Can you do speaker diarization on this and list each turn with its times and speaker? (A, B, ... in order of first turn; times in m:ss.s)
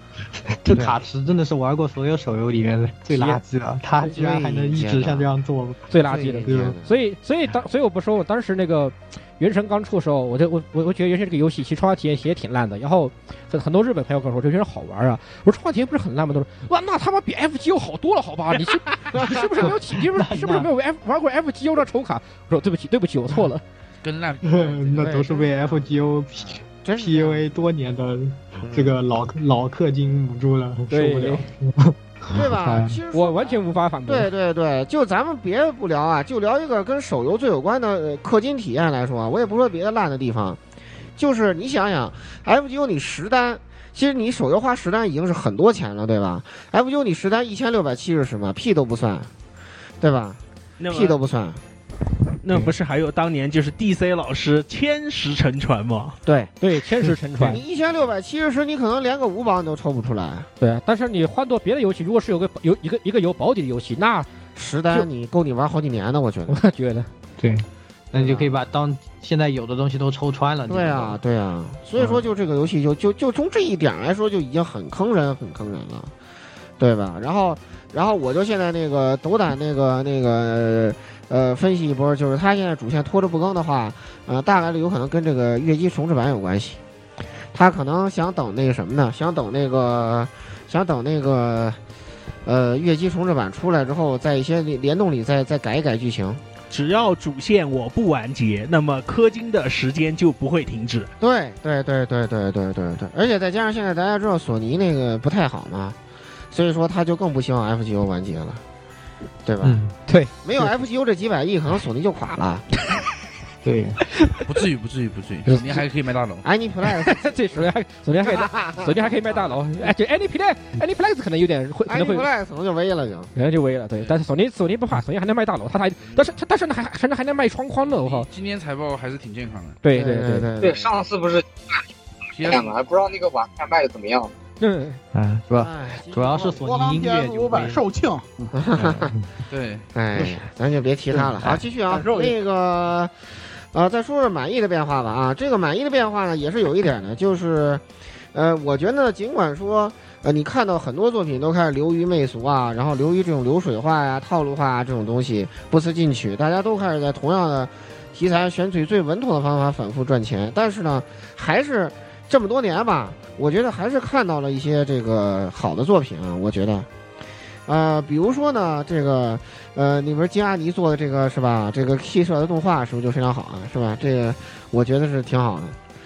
0:00.6-0:05.9 A
0:00.7-0:01.0 B
0:03.1-0:03.4 C
0:04.0-0:05.3 B
0:05.9-0:23.6 C
0:06.0-0:06.9 B
0:06.4-0:06.8 A
0:19.4-0:20.7 A
0:24.0-0:25.2 D
0:24.4-0:33.0 A
0:25.0-0:25.9 B
0:26.8-0:27.4 B
0:28.6-0:29.0 B
0:30.9-0:31.4 C
0:32.3-0:40.6 B
0:33.1-0:34.3 C
0:41.2-0:49.3 B
0:50.0-0:51.6 B
0:50.8-0:51.2 E
0:52.4-0:56.2 E
0:56.2-0:56.5 B
0:56.6-0:57.6 C
0:57.4-1:00.5 B
1:00.6-1:04.3 C
1:04.6-1:06.6 B
1:06.5-1:07.1 C
1:07.4-1:11.2 A
1:08.1-1:08.5 B
1:10.7-1:16.1 B
1:12.0-1:12.2 A
1:16.8-1:26.8 B
1:27.5-1:31.8 B
1:32.4-1:36.4 B
1:36.7-1:41.1 E
1:41.2-1:46.0 B
1:46.5-1:48.6 B
1:49.4-1:49.8 B
1:49.6-1:49.9 A
1:50.1-1:50.3 C
1:50.4-1:52.6 B
1:53.6-1:54.0 A
1:54.4-1:56.4 D
1:56.4-1:57.4 B
1:57.0-2:02.2 C
1:58.2-1:59.5 B
2:01.9-2:03.3 B
2:03.3-2:08.2 C
2:07.9-2:09.8 D
2:09.8-2:10.5 C
2:09.9-2:11.0 B
2:10.6-2:11.8 F
2:12.4-2:12.7 D
2:12.4-2:14.3 F
2:14.6-2:15.0 C
2:15.1-2:17.8 A
2:15.6-2:16.6 B
2:16.6-2:18.5 G
2:18.5-2:19.1 B
2:18.7-2:19.2 A
2:19.5-2:19.8 D
2:19.9-2:23.1 B
2:21.2-2:21.6 A
2:21.9-2:22.4 G
2:23.7-2:27.8 B
2:28.3-2:46.9 B
2:47.7-2:55.8 B